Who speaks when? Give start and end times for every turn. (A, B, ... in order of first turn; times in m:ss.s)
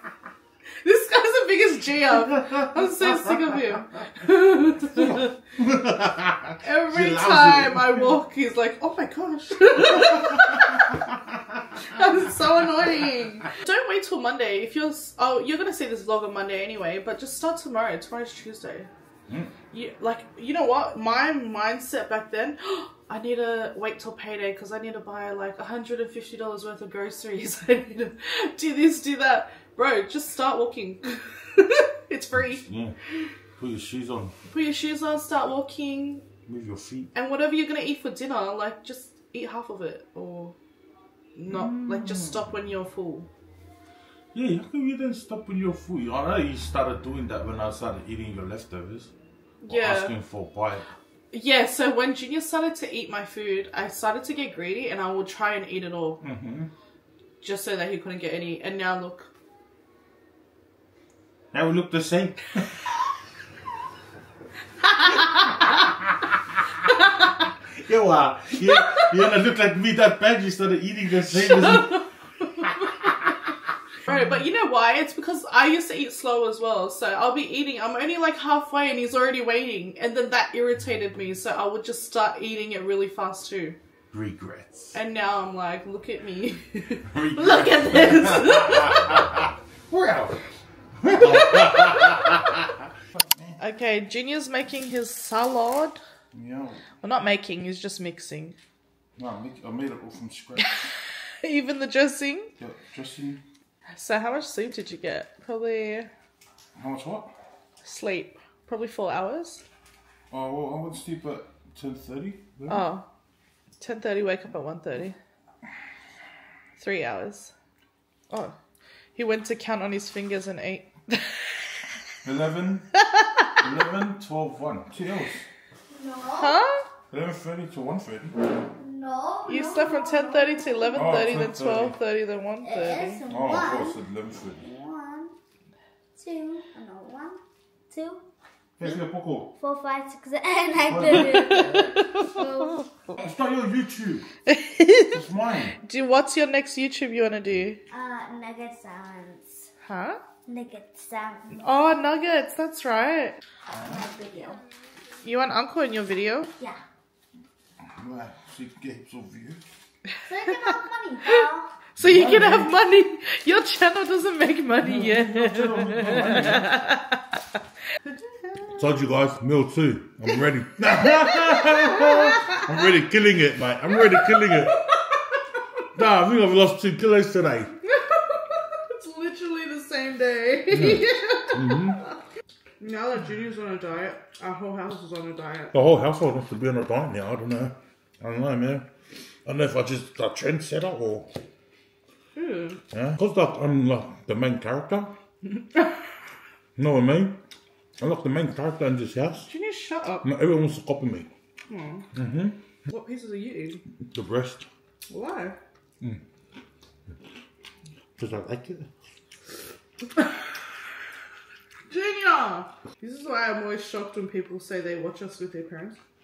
0:00.8-0:05.4 A
0:02.3-0:03.4 B
0:04.9-0:08.1 B
0:06.6-0:11.0 A
0:09.8-0:12.0 B
0:11.9-0:18.9 A
0:19.3-0:19.5 B
0:19.7-0:32.6 A
0:32.5-0:33.0 B
0:33.6-0:34.3 B
0:34.5-0:36.2 A
0:36.4-0:37.1 B
0:37.1-0:40.6 A
0:41.3-0:43.3 A
0:41.5-0:42.5 B
0:44.3-0:49.1 B
0:49.6-0:50.2 A
0:49.7-0:50.8 B
0:51.3-0:56.2 A
0:56.2-0:56.7 B
0:57.4-0:59.3 A
1:01.5-1:02.7 B
1:07.8-1:12.1 B
1:11.6-1:12.0 A
1:14.0-1:23.8 A
1:24.1-1:24.9 B
1:24.9-1:29.3 A
1:27.1-1:30.4 B
1:31.0-1:33.6 B
1:33.6-1:36.0 A
1:36.3-1:36.8 B
1:37.0-1:38.6 A
1:39.2-1:40.9 B
1:41.4-1:42.5 A
1:42.6-1:43.4 B
1:43.9-1:46.1 A
1:46.8-1:47.3 B
1:47.8-1:49.6 A
1:50.3-1:52.9 B
1:52.7-1:53.0 A
1:53.8-1:55.2 A
1:56.8-1:57.5 A
1:58.3-1:58.6 A
1:59.2-2:01.4 A
2:02.2-2:02.9 B
2:03.1-2:03.5 A
2:03.6-2:05.4 B
2:05.9-2:06.6 C
2:06.4-2:06.8 A
2:07.1-2:08.4 B
2:08.7-2:11.0 C
2:09.4-2:13.2 A
2:10.9-2:12.0 B
2:12.6-2:14.0 C
2:13.3-2:14.7 B
2:14.6-2:15.3 C
2:16.2-2:17.4 C
2:17.9-2:18.2 C
2:18.8-2:19.5 B
2:19.6-2:22.9 C
2:20.8-2:21.8 B
2:21.5-2:22.8 A
2:23.2-2:24.3 B
2:24.5-2:25.1 A
2:25.1-2:25.8 B
2:25.8-2:27.8 A
2:27.9-2:29.7 C
2:29.8-2:30.2 A
2:30.5-2:31.6 C
2:31.6-2:33.4 A
2:33.7-2:34.6 C
2:33.7-2:34.0 B
2:35.2-2:36.5 A
2:37.8-2:39.6 B
2:40.2-2:41.7 C
2:42.0-2:42.7 B
2:42.0-2:47.2 A
2:44.8-2:46.8 B
2:48.7-2:54.8 B
2:51.0-2:52.6 A
2:54.1-2:54.9 A
2:55.9-2:57.8 B
2:57.8-3:01.8 A
3:00.7-3:02.0 B
3:02.8-3:05.7 A
3:05.7-3:08.9 B
3:09.4-3:11.3 B
3:12.3-3:12.8 A
3:12.9-3:15.2 B
3:15.6-3:15.9 A
3:16.8-3:17.4 B
3:18.0-3:19.5 B
3:19.5-3:20.3 A
3:20.2-3:21.3 B
3:21.7-3:22.0 A
3:22.1-3:22.6 B
3:22.9-3:23.8 A
3:24.0-3:24.7 B
3:25.1-3:25.6 A
3:28.2-3:28.9 B
3:31.9-3:36.0 A